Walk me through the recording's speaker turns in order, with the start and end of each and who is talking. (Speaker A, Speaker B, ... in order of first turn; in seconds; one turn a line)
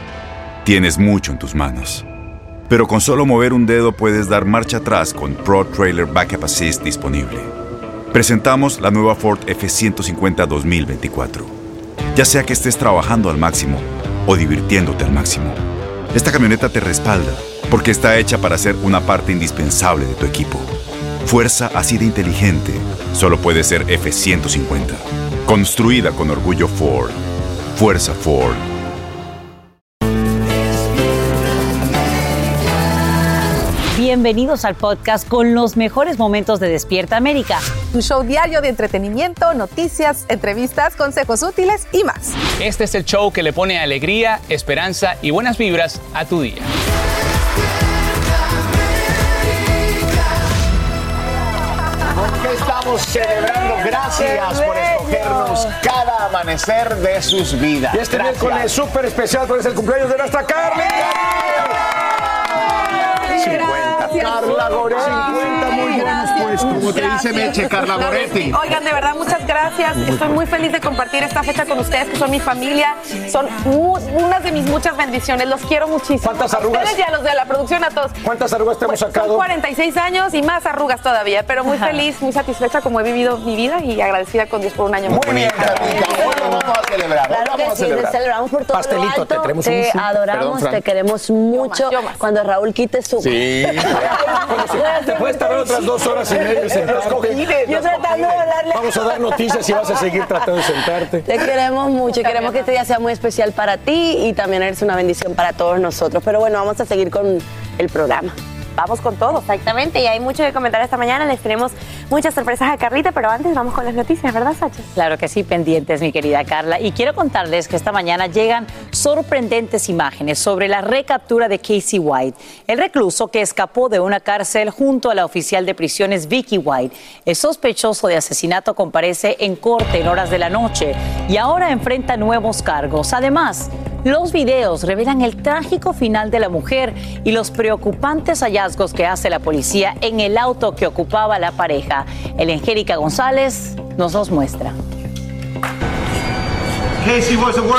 Speaker A: 0.6-2.0
Speaker A: 2.7-7.5
Speaker A: 8.1-11.5
Speaker A: 12.1-15.6
Speaker A: 16.1-20.7
Speaker A: 21.2-27.2
Speaker A: 27.7-28.6
Speaker B: 33.9-37.7
Speaker C: 37.9-42.3
Speaker D: 42.6-46.7
Speaker E: 52.1-58.7
Speaker F: 54.3-55.3
Speaker G: 57.9-61.6
Speaker E: 63.3-68.6
Speaker C: 65.1-78.2
Speaker G: 76.2-77.0
Speaker G: 78.2-79.5
Speaker C: 78.8-86.6
Speaker F: 81.7-82.0
Speaker G: 85.1-85.9
Speaker E: 85.1-88.0
Speaker F: 85.7-86.7
Speaker F: 87.3-93.8
Speaker G: 88.7-90.1
Speaker C: 91.5-92.2
Speaker G: 94.0-101.2
Speaker F: 94.7-100.5
Speaker F: 101.2-108.3
Speaker C: 102.1-102.7
Speaker C: 108.8-109.4
Speaker H: 109.5-114.8
Speaker B: 114.9-144.7